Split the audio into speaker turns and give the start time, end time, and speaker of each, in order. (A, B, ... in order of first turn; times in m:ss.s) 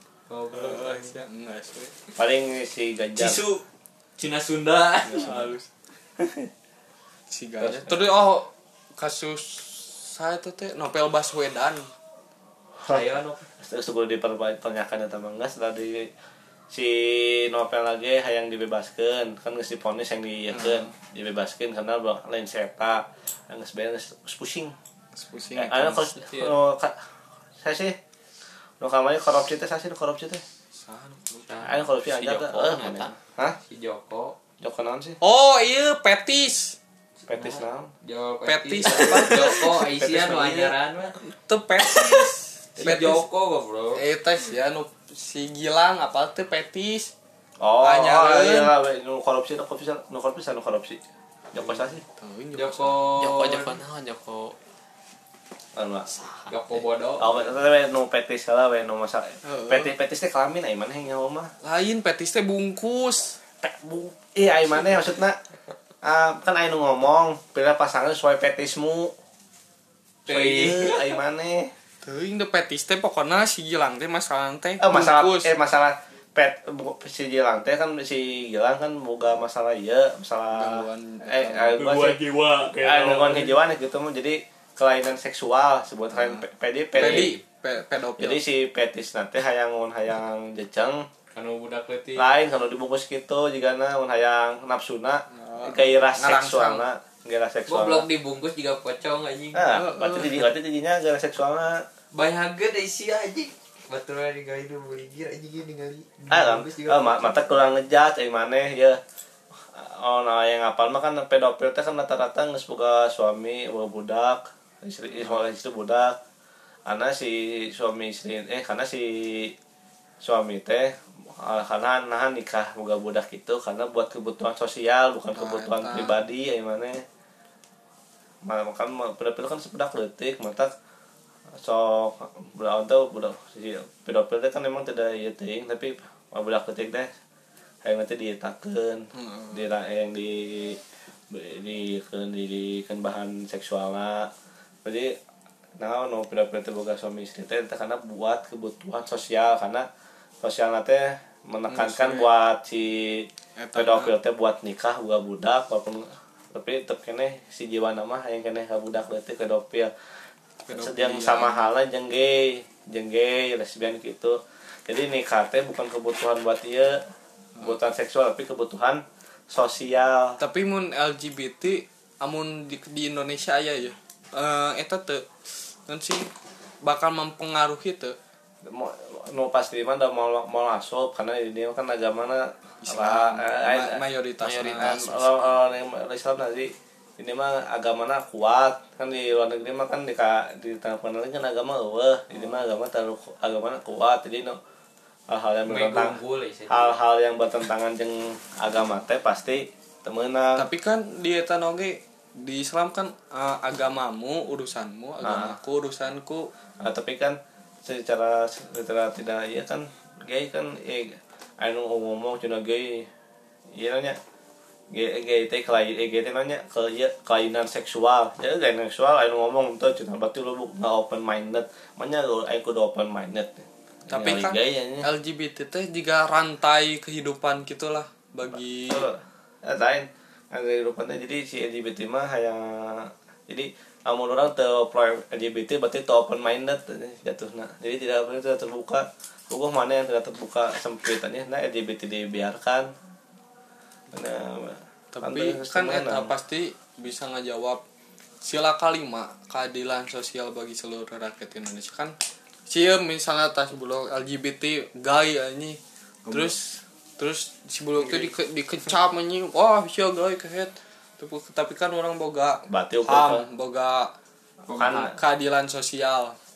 0:00.3-0:01.1 A
0:00.5-0:01.9 B
0:02.2-0:03.4 C
0:03.2-0:03.6 A
0:04.2-0:05.5 A
0:05.1-0:05.7 B
0:06.2-0:06.5 C
0:07.3-0:11.9 B
0:07.6-0:08.1 C
0:12.8-0:13.5 A
0:13.6-0:16.1 C
0:16.7-0:24.8 C
0:20.5-0:20.9 B
0:25.2-0:26.2 B
0:25.6-0:27.0 C
0:27.6-0:28.0 C
0:28.8-0:30.4 C
0:30.8-0:31.6 B
0:31.5-0:33.2 A
0:31.6-0:33.6 C
0:33.7-0:34.4 A
0:34.6-0:35.2 C
0:35.2-0:36.8 B
0:37.3-0:41.2 A
0:37.3-0:37.9 C
0:38.4-0:39.8 B
0:39.6-0:40.7 C
0:41.3-0:43.2 B
0:42.8-0:44.0 A
0:44.0-0:47.1 B
0:47.6-0:51.0 C
0:47.8-0:48.7 B
0:51.5-0:52.0 C
0:52.0-0:53.0 B
0:52.5-0:53.8 A
0:53.2-0:54.6 D
0:55.8-0:56.1 C
0:56.2-0:56.5 B
0:56.5-0:57.4 A
0:57.2-1:01.5 C
0:59.4-0:59.9 B
1:01.6-1:03.4 B
1:03.6-1:05.4 C
1:06.0-1:09.1 C
1:10.3-1:11.2 A
1:10.3-1:11.7 C
1:12.0-1:15.5 B
1:14.8-1:27.3 C
1:20.5-1:21.8 B
1:22.0-1:23.3 A
1:27.0-1:28.4 B
1:27.0-1:27.4 A
1:28.2-1:31.1 C
1:31.3-1:32.3 A
1:32.2-1:38.1 C
1:35.3-1:36.8 B
1:37.7-1:39.8 A
1:39.5-1:41.8 C
1:39.7-1:40.4 B
1:42.1-1:47.1 A
1:46.2-1:47.4 D
1:46.3-1:49.0 C
1:49.7-1:56.2 C
1:56.9-1:59.6 C
2:00.2-2:07.0 C
2:05.4-2:06.2 B
2:08.4-2:10.7 C
2:11.6-2:17.1 C
2:17.8-2:24.3 C
2:19.1-2:19.7 B
2:24.8-2:25.2 C
2:25.8-2:29.9 C
2:30.4-2:39.9 C
2:31.7-2:32.3 B
2:33.6-2:34.1 B
2:40.6-2:41.7 B
2:40.7-2:47.0 C
2:47.6-2:50.4 C
2:50.4-2:55.3 B
2:55.9-2:56.3 B
2:56.8-2:58.2 B
2:58.6-3:04.0 C
3:02.8-3:05.0 B
3:04.4-3:05.5 D
3:04.8-3:14.6 C
3:15.3-3:20.7 C
3:15.7-3:17.0 A
3:20.6-3:26.5 B
3:25.2-3:25.6 C
3:26.8-3:33.1 C
3:33.7-3:34.2 C
3:34.9-3:45.1 C
3:44.1-3:49.1 B
3:48.9-4:02.9 C
4:04.1-4:06.3 C
4:05.1-4:07.8 B
4:08.4-4:12.1 B
4:12.7-4:16.6 B
4:17.2-4:24.1 B
4:22.7-4:23.4 C
4:24.7-4:25.0 A
4:24.7-4:25.1 C
4:24.8-4:26.4 B